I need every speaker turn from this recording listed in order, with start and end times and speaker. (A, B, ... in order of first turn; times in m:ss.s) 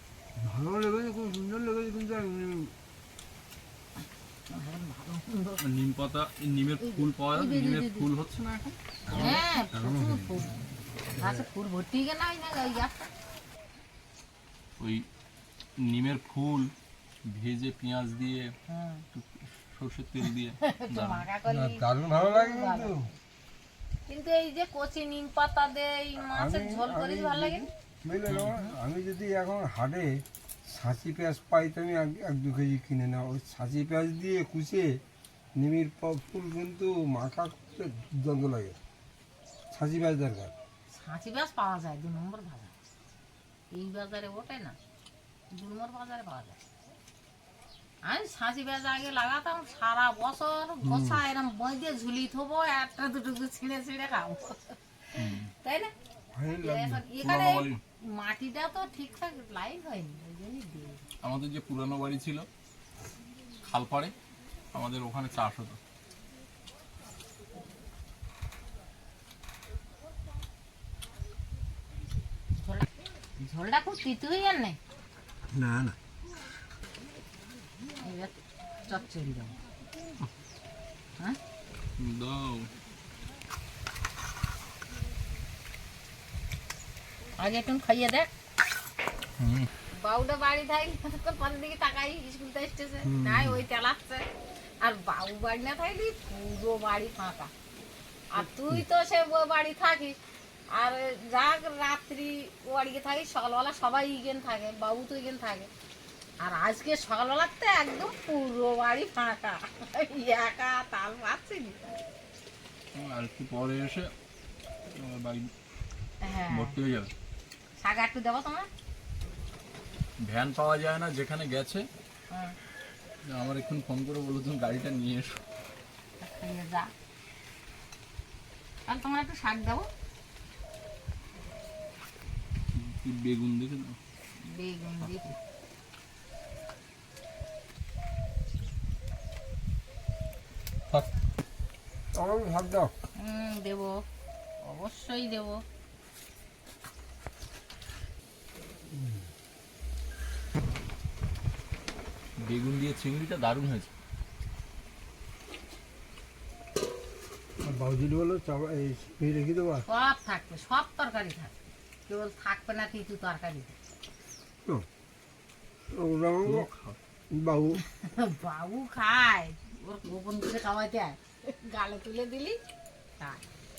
0:00.4-0:02.7 A
0:04.5-0:05.6 B
0:05.6-0:09.3 C
0:06.8-0:08.1 B
0:09.1-0:10.4 A
0:09.1-0:10.6 B
0:11.2-0:13.1 B
0:11.2-0:11.5 A
0:14.8-0:15.0 C
0:15.8-0:16.7 C
0:17.3-0:18.5 C
0:18.7-0:19.0 B
0:19.1-0:21.3 C
0:20.6-0:23.1 B
0:21.5-0:23.1 A
0:24.1-0:27.7 B
0:26.3-0:35.0 A
0:28.3-0:28.7 C
0:35.6-0:38.8 A
0:39.7-0:40.5 A
0:40.9-0:42.7 B
0:43.7-0:44.8 B
0:45.5-0:46.6 B
0:48.0-0:55.9 B
0:50.8-0:51.2 A
0:55.2-0:55.5 C
0:56.3-0:57.0 A
0:56.6-1:01.0 B
0:57.2-0:57.8 C
1:01.2-1:02.5 C
1:03.6-1:04.1 C
1:04.7-1:05.8 C
1:12.6-1:14.8 B
1:15.5-1:16.0 A
1:18.0-1:19.6 B
1:22.0-1:22.7 C
1:27.4-1:28.3 B
1:29.4-1:29.7 C
1:30.0-1:34.3 B
1:33.1-1:33.6 C
1:34.8-1:37.5 B
1:38.3-1:40.2 B
1:40.7-1:45.7 B
1:46.4-1:52.0 B
1:52.9-1:54.1 C
1:54.9-1:55.5 C
1:56.2-1:56.8 B
1:56.5-1:57.1 C
1:57.8-1:58.7 B
2:00.2-2:01.8 C
2:03.3-2:05.4 C
2:06.2-2:06.9 B
2:08.9-2:09.9 B
2:12.7-2:14.0 C
2:14.4-2:15.3 B
2:15.0-2:15.4 C
2:22.1-2:22.9 A
2:23.2-2:24.0 B
2:24.6-2:25.6 B
2:28.9-2:29.2 A
2:32.4-2:33.9 C
2:37.6-2:39.8 A
2:39.9-2:41.5 B
2:42.1-2:43.8 B
2:45.9-2:46.7 A
2:46.4-2:47.0 C
2:47.3-2:47.8 A
2:47.9-2:52.6 B